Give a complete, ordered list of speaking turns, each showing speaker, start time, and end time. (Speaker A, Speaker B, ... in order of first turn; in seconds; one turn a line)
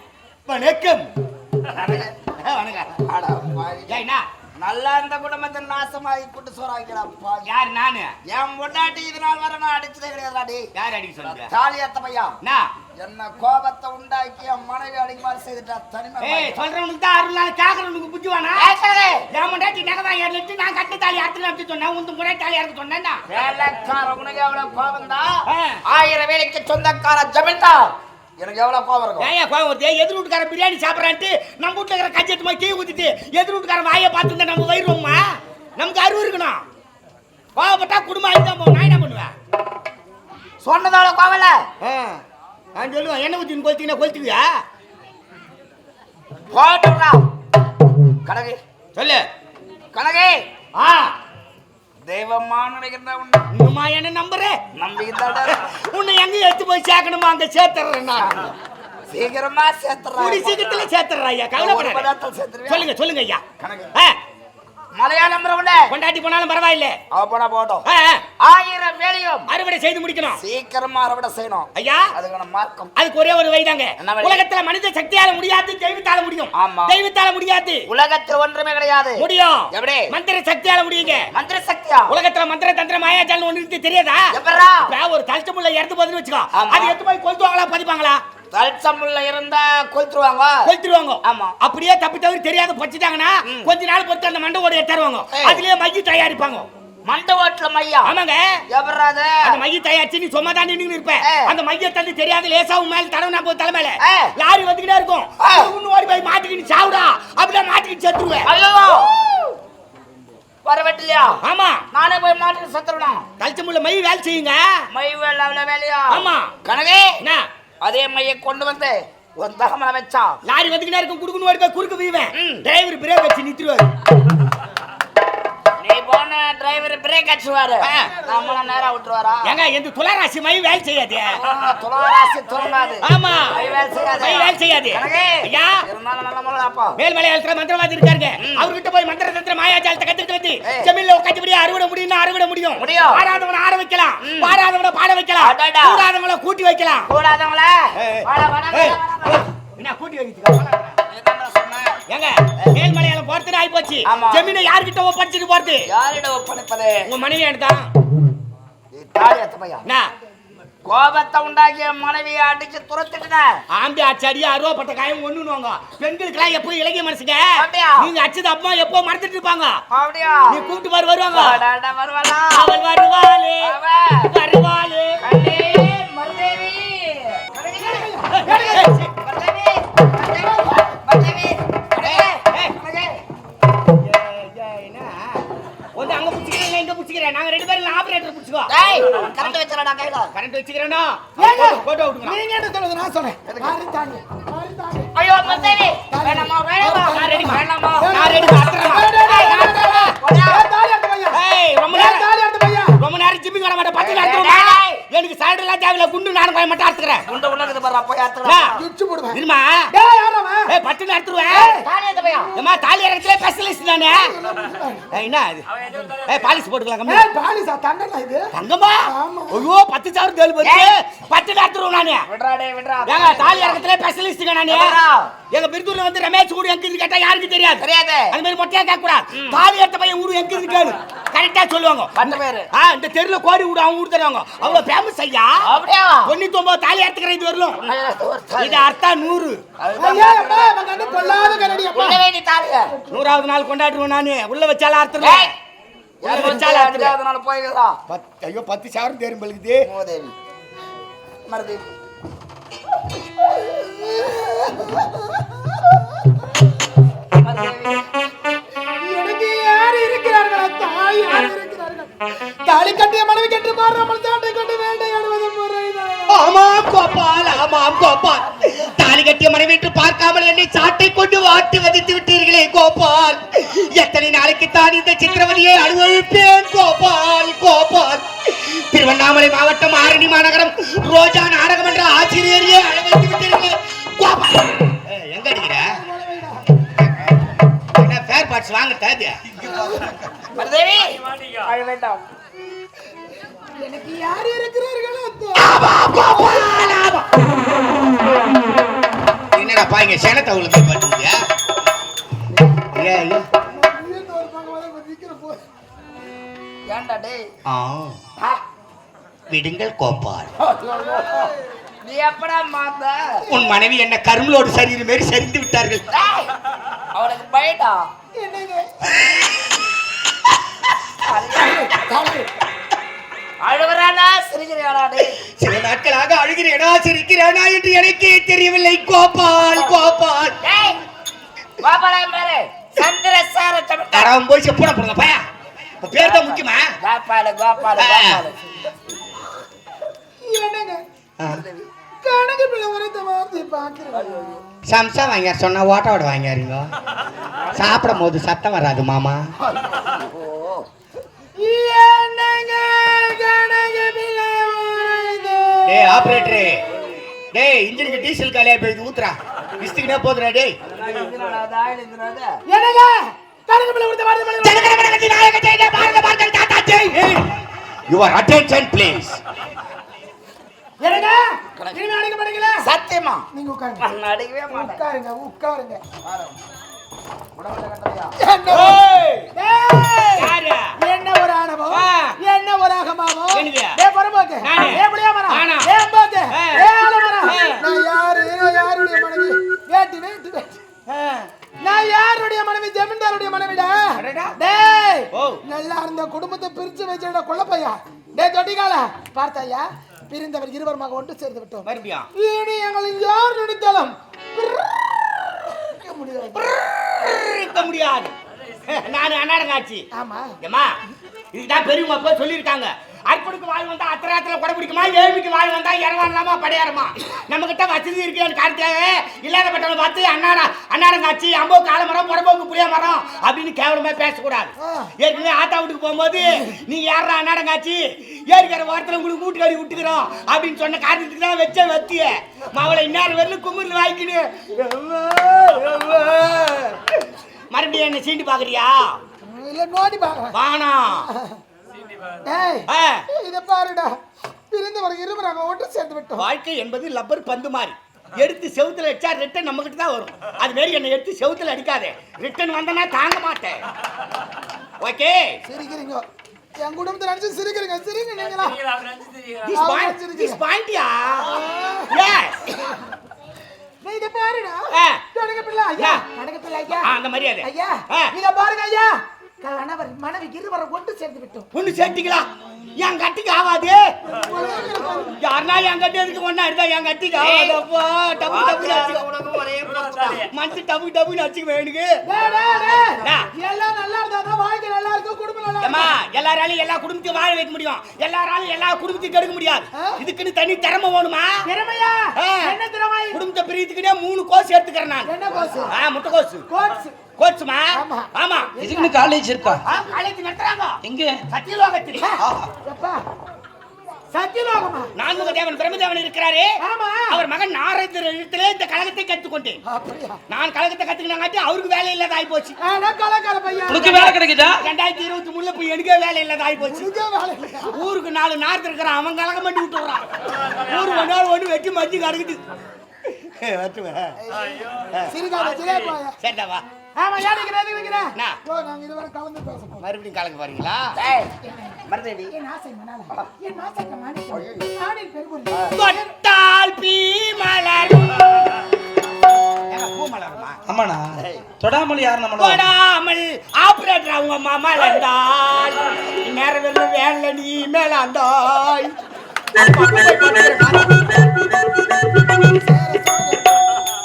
Speaker A: 0.5-1.1
Speaker B: 1.8-2.1
Speaker A: 2.4-2.9
Speaker B: 3.0-4.0
Speaker A: 3.9-4.2
Speaker B: 4.6-7.5
Speaker A: 7.4-8.1
Speaker B: 8.2-10.7
Speaker A: 10.8-11.5
Speaker B: 11.2-12.4
Speaker A: 12.4-12.7
Speaker B: 13.0-16.6
Speaker A: 16.2-18.7
Speaker B: 18.6-19.3
Speaker A: 19.3-23.2
Speaker B: 23.3-29.3
Speaker A: 25.5-25.8
Speaker A: 29.2-35.2
Speaker A: 35.8-36.6
Speaker A: 37.5-39.3
Speaker B: 40.6-41.6
Speaker A: 41.8-42.2
Speaker A: 42.7-44.6
Speaker B: 46.5-47.3
Speaker B: 48.2-48.6
Speaker A: 49.0-49.3
Speaker B: 49.9-50.5
Speaker A: 50.7-51.1
Speaker B: 52.0-53.5
Speaker A: 53.5-54.6
Speaker B: 54.8-55.6
Speaker A: 55.4-58.5
Speaker B: 58.2-58.5
Speaker B: 59.1-60.8
Speaker A: 60.1-62.1
Speaker B: 61.5-62.9
Speaker A: 62.7-63.4
Speaker B: 63.6-63.9
Speaker B: 64.9-65.9
Speaker A: 65.9-67.0
Speaker B: 67.1-67.8
Speaker A: 67.8-68.2
Speaker B: 68.4-69.5
Speaker A: 69.5-70.4
Speaker B: 70.4-72.9
Speaker A: 71.7-72.1
Speaker A: 73.0-77.8
Speaker B: 74.0-74.4
Speaker B: 76.6-77.0
Speaker B: 77.9-80.1
Speaker A: 79.2-81.3
Speaker B: 81.3-82.2
Speaker A: 82.1-84.3
Speaker B: 84.3-84.9
Speaker A: 84.8-88.2
Speaker B: 86.5-87.0
Speaker B: 88.5-90.7
Speaker A: 90.6-96.7
Speaker B: 91.2-91.5
Speaker B: 93.5-93.7
Speaker B: 95.3-95.6
Speaker B: 97.0-98.1
Speaker A: 98.0-98.6
Speaker B: 98.7-99.6
Speaker A: 99.4-108.5
Speaker B: 101.2-101.5
Speaker B: 104.0-104.3
Speaker B: 105.4-105.7
Speaker B: 108.4-109.1
Speaker B: 110.6-113.3
Speaker A: 111.4-111.8
Speaker A: 113.4-114.8
Speaker B: 114.9-117.2
Speaker A: 116.1-116.5
Speaker B: 117.8-120.4
Speaker A: 120.4-123.9
Speaker B: 122.3-122.6
Speaker B: 125.8-129.6
Speaker A: 127.8-128.1
Speaker A: 129.4-131.4
Speaker B: 131.4-137.0
Speaker A: 133.0-133.6
Speaker A: 134.1-135.8
Speaker A: 137.0-147.1
Speaker B: 138.4-138.7
Speaker B: 140.7-140.9
Speaker B: 142.8-143.2
Speaker B: 144.2-144.6
Speaker B: 145.4-146.1
Speaker B: 147.1-149.4
Speaker A: 148.0-151.0
Speaker B: 151.1-152.0
Speaker A: 152.1-155.9
Speaker B: 154.1-154.5
Speaker B: 155.9-157.1
Speaker A: 157.1-157.9
Speaker B: 158.9-159.8
Speaker B: 160.8-163.6
Speaker A: 163.7-169.8
Speaker B: 167.6-168.1
Speaker B: 169.9-170.6
Speaker A: 170.5-171.6
Speaker B: 171.3-172.7
Speaker A: 172.5-173.8
Speaker B: 173.6-174.3
Speaker A: 174.3-175.2
Speaker B: 175.2-183.2
Speaker C: 177.7-178.9
Speaker A: 178.3-179.1
Speaker C: 180.3-180.9
Speaker A: 182.0-182.8
Speaker A: 183.9-185.4
Speaker A: 185.9-188.7
Speaker B: 188.7-190.3
Speaker A: 190.3-192.4
Speaker C: 191.4-202.9
Speaker B: 193.5-193.8
Speaker B: 195.2-200.6
Speaker A: 197.1-200.1
Speaker A: 201.3-202.2
Speaker A: 203.0-207.2
Speaker B: 204.0-205.0
Speaker B: 207.2-208.7
Speaker A: 208.4-208.8
Speaker C: 208.8-209.4
Speaker A: 209.3-209.7
Speaker C: 209.9-210.7
Speaker A: 210.7-211.7
Speaker C: 211.5-211.9
Speaker B: 211.5-212.5
Speaker A: 212.6-214.2
Speaker C: 214.1-215.1
Speaker A: 215.1-215.7
Speaker A: 216.2-217.2
Speaker C: 217.1-218.5
Speaker A: 218.5-222.3
Speaker C: 219.1-219.6
Speaker B: 220.6-220.9
Speaker B: 222.3-223.8
Speaker A: 223.1-224.9
Speaker B: 224.7-225.3
Speaker A: 225.5-235.5
Speaker B: 227.8-228.4
Speaker B: 229.3-229.6
Speaker B: 232.2-232.7
Speaker B: 235.6-236.3
Speaker A: 236.2-237.8
Speaker B: 237.8-238.9
Speaker A: 238.6-239.6
Speaker B: 239.8-240.8
Speaker C: 240.0-242.2
Speaker B: 241.9-242.9
Speaker C: 242.9-243.4
Speaker A: 243.1-245.5
Speaker B: 245.2-245.5
Speaker B: 246.2-248.0
Speaker A: 246.2-247.2
Speaker A: 248.1-249.9
Speaker B: 249.8-250.3
Speaker B: 251.5-251.9
Speaker C: 253.8-255.8
Speaker B: 257.4-258.1
Speaker C: 259.0-262.1
Speaker C: 262.6-266.4
Speaker A: 266.3-285.9
Speaker C: 285.7-286.6
Speaker A: 287.0-287.4
Speaker A: 287.9-289.6
Speaker C: 289.6-290.1
Speaker B: 290.5-292.2
Speaker C: 293.8-296.9
Speaker A: 295.6-297.3
Speaker A: 299.5-301.4
Speaker A: 302.9-303.5
Speaker C: 303.7-305.6
Speaker B: 306.9-307.5
Speaker A: 307.7-308.1
Speaker A: 309.5-310.5
Speaker B: 310.6-311.5
Speaker B: 312.0-313.4
Speaker A: 313.5-316.0
Speaker B: 316.1-316.5
Speaker B: 317.1-318.1
Speaker C: 318.3-318.9
Speaker B: 321.2-321.9
Speaker C: 321.4-322.5
Speaker B: 323.6-325.4
Speaker A: 325.2-330.6
Speaker B: 329.7-330.0
Speaker B: 330.6-331.0
Speaker B: 331.8-334.3
Speaker A: 334.1-335.4
Speaker A: 336.0-336.9
Speaker B: 336.1-338.7
Speaker A: 337.8-338.4
Speaker C: 340.4-341.0
Speaker B: 341.4-341.9
Speaker C: 342.2-344.3
Speaker B: 344.1-344.6
Speaker A: 344.9-346.9
Speaker B: 347.6-348.2
Speaker A: 347.8-349.4
Speaker B: 349.7-350.9
Speaker C: 351.6-356.6
Speaker A: 355.9-356.8
Speaker A: 357.5-360.8
Speaker B: 360.8-362.5
Speaker C: 362.7-364.9
Speaker A: 364.6-367.6
Speaker A: 368.1-369.4
Speaker C: 371.0-372.9
Speaker B: 372.8-373.4
Speaker C: 373.5-374.1
Speaker B: 374.0-375.0
Speaker C: 374.7-376.0
Speaker B: 376.2-376.6
Speaker B: 377.5-378.3
Speaker C: 378.4-379.0
Speaker A: 378.7-379.5
Speaker C: 379.5-390.7
Speaker A: 380.4-380.9
Speaker A: 381.9-382.4
Speaker A: 383.5-384.0
Speaker A: 384.6-385.9
Speaker A: 386.5-386.9
Speaker A: 387.4-387.8
Speaker A: 391.1-391.5
Speaker C: 391.8-405.1
Speaker A: 394.1-394.5
Speaker A: 395.3-395.6
Speaker A: 401.8-402.3
Speaker C: 405.8-406.8
Speaker A: 406.6-408.3
Speaker A: 408.9-410.1
Speaker C: 410.1-410.6
Speaker A: 410.6-410.9
Speaker A: 411.5-439.2
Speaker C: 424.8-425.1
Speaker C: 439.4-440.5
Speaker A: 440.5-441.3
Speaker C: 441.2-441.6
Speaker C: 442.4-444.1
Speaker A: 442.9-443.2
Speaker C: 444.7-446.5
Speaker A: 446.4-453.8
Speaker A: 455.0-455.6
Speaker C: 455.6-456.2
Speaker C: 456.8-458.8
Speaker A: 459.6-461.5
Speaker C: 459.7-460.6
Speaker C: 461.5-462.1
Speaker A: 462.1-462.6
Speaker C: 462.7-463.0
Speaker C: 464.0-467.1
Speaker A: 464.9-465.2
Speaker A: 466.0-466.2
Speaker A: 467.0-468.3
Speaker C: 467.6-471.7
Speaker A: 471.7-474.0
Speaker C: 474.3-475.4
Speaker A: 475.4-479.2
Speaker B: 477.4-477.8
Speaker B: 478.5-480.5
Speaker A: 480.4-482.1
Speaker C: 482.2-486.1
Speaker B: 482.4-483.2
Speaker A: 483.2-483.5
Speaker A: 485.8-491.5
Speaker C: 491.6-493.4
Speaker A: 492.4-492.8
Speaker A: 493.3-495.3
Speaker C: 495.2-496.0
Speaker A: 495.9-496.6
Speaker C: 496.7-497.2
Speaker A: 497.4-498.7
Speaker C: 497.9-499.2
Speaker D: 498.8-499.8
Speaker A: 499.8-502.3
Speaker D: 501.0-501.4
Speaker C: 502.2-503.2
Speaker D: 502.4-502.7
Speaker C: 504.3-505.5
Speaker A: 505.1-506.7
Speaker C: 506.8-507.4
Speaker A: 507.3-509.8
Speaker C: 509.9-510.4
Speaker A: 510.5-512.8
Speaker C: 512.8-514.3
Speaker D: 513.9-514.8
Speaker A: 514.0-517.1
Speaker C: 516.8-518.0
Speaker A: 517.9-520.2
Speaker A: 520.8-522.6
Speaker A: 523.2-524.4
Speaker C: 525.3-526.4
Speaker A: 526.4-526.9
Speaker C: 527.2-530.0
Speaker A: 530.0-531.1
Speaker B: 531.2-531.5
Speaker C: 531.6-536.3
Speaker B: 532.1-532.5
Speaker B: 534.5-534.9
Speaker A: 535.9-538.8
Speaker A: 539.9-540.8
Speaker D: 540.9-542.8
Speaker B: 541.4-541.6
Speaker A: 542.6-549.2
Speaker A: 549.7-551.2
Speaker C: 552.7-553.7